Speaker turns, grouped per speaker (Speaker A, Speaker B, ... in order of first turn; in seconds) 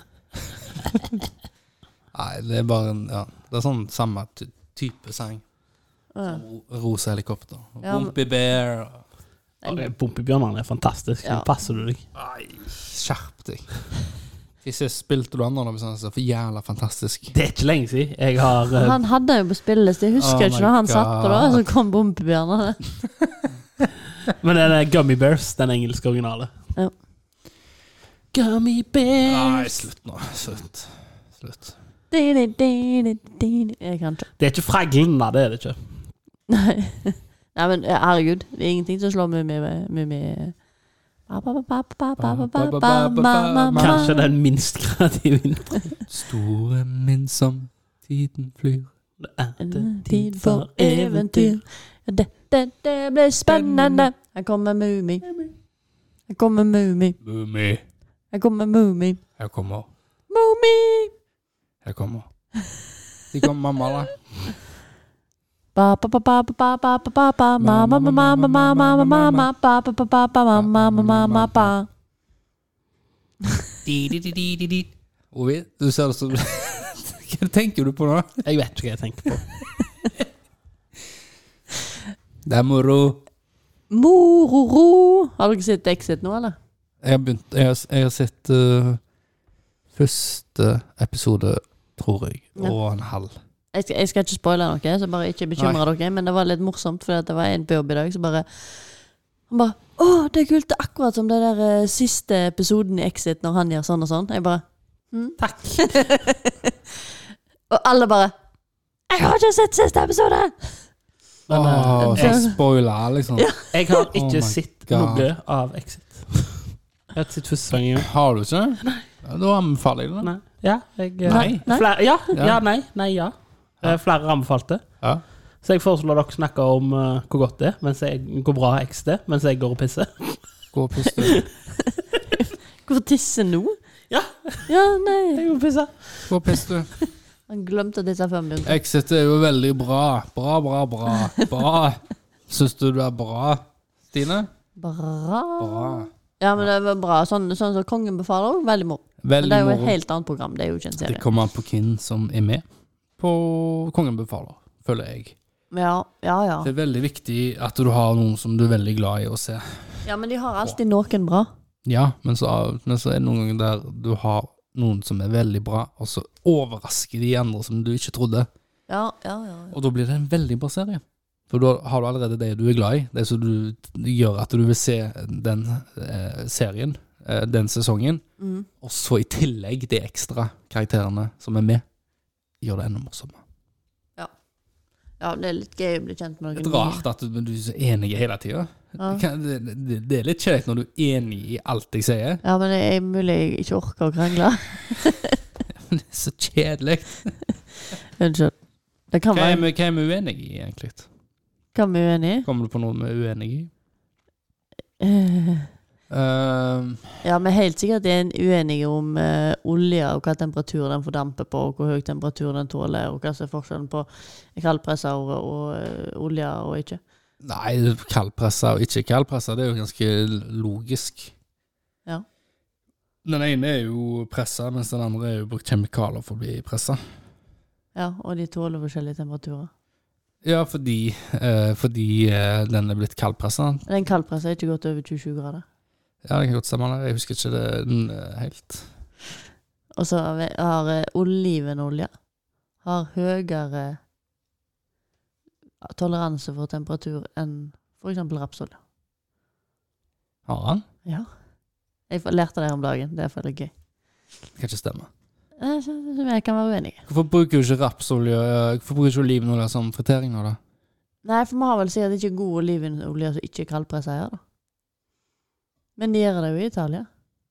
Speaker A: 0.4-1.2, 2.1-5.4, 6.2-9.0, 12.2-13.8, 14.6-17.3, 20.2-21.6, 29.3-31.8, 42.2-44.1, 46.1-48.9, 53.5-54.1, 57.2-57.8, 59.4-59.9, 61.8-62.3, 63.3-64.1, 67.6-69.5, 70.5-71.7, 73.9-78.4, 82.5-83.2, 87.0-89.0, 89.9-93.4, 95.6-95.8, 111.5-115.3, 117.9-120.3, 121.2-121.7, 122.3-122.6, 130.7-131.4, 136.3-136.9, 138.7-144.5, 145.6-146.6, 149.2-150.0, 151.0-152.6, 153.2-155.3, 156.6-160.1, 161.8-168.5, 169.7-178.2, 178.8-181.8, 182.6-183.4, 186.6-192.4, 195.8-197.4, 199.3-201.1, 202.5-203.7, 206.1-207.1, 217.4-221.3, 223.2-227.0, 230.4-233.8, 236.2-238.9, 250.5-250.8, 254.6-255.1, 257.1-260.6
Speaker B: 6.1-6.4, 7.8-8.1, 18.8-22.8, 32.1-34.3, 36.5-40.6, 41.3-44.3, 49.6-55.3, 56.3-57.2, 58.3-59.2, 60.3-61.1, 65.8-71.9, 83.9-86.6, 93.7-99.0, 99.5-106.9, 107.7-108.3, 109.1-110.8, 112.0-112.6, 113.4-113.7, 121.3-121.9, 132.3-133.8, 134.7-135.4, 137.5-138.8, 144.8-151.2, 155.7-156.7, 160.1-161.5, 168.9-169.8, 178.4-178.7, 185.2-187.1, 192.4-195.4, 198.2-198.6, 199.1-199.6, 201.8-202.5, 205.0-205.7, 207.2-217.0, 227.9-229.7, 233.9-235.6, 240.0-242.1, 242.8-244.0, 245.8-248.8, 252.1-253.7, 255.6-257.0, 261.2-264.4, 266.0-267.1
Speaker C: 9.7-12.0, 17.3-19.0, 24.3-26.5, 28.3-29.8, 34.4-35.8, 43.8-45.9, 49.2-51.6, 78.5-79.5, 105.4-106.0, 111.5-112.5, 113.7-118.1, 120.2-124.8, 125.6-130.4, 131.2-131.5, 134.1-134.7, 135.3-136.7